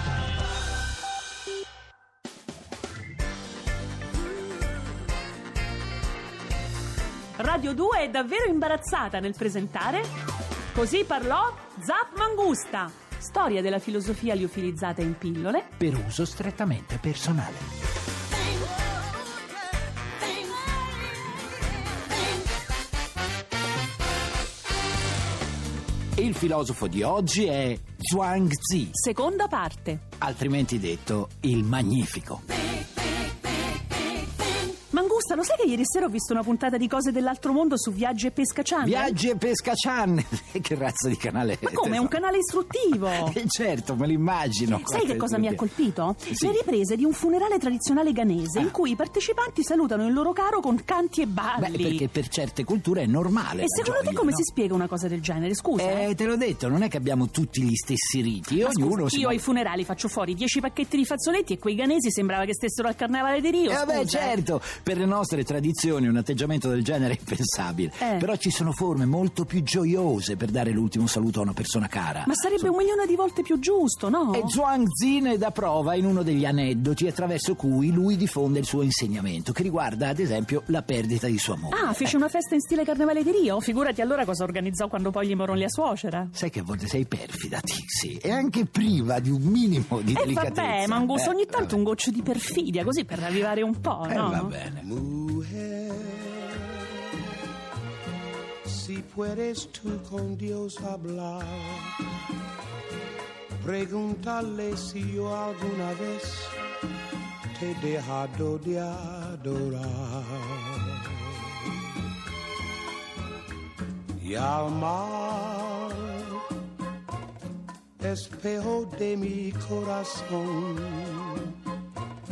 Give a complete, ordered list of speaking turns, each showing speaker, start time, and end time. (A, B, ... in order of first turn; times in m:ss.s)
0:07.4-0:10.1 A
0:10.7-0:15.7 A
0:15.8-0:17.7 B
0:26.2-0:29.0 B
0:28.9-0:30.0 A
0:30.2-0:32.4 B
0:34.9-0:39.2 A
0:38.8-0:42.2 B
0:41.6-0:43.4 A
0:42.9-0:45.7 B
0:44.8-0:52.0 A
0:46.3-0:46.6 B
0:51.6-0:54.4 B
0:53.6-0:56.1 A
0:55.8-0:59.4 B
0:58.6-1:04.4 A
1:03.7-1:12.7 B
1:08.0-1:08.2 A
1:12.2-1:14.5 A
1:14.3-1:22.1 B
1:21.7-1:26.3 A
1:26.3-1:31.8 B
1:30.1-1:34.5 A
1:34.1-1:34.8 B
1:34.8-1:37.0 C
1:38.6-1:41.9 C
1:43.6-1:46.6 C
1:47.5-1:51.2 C
1:54.2-1:56.4 C
1:58.0-2:01.5 C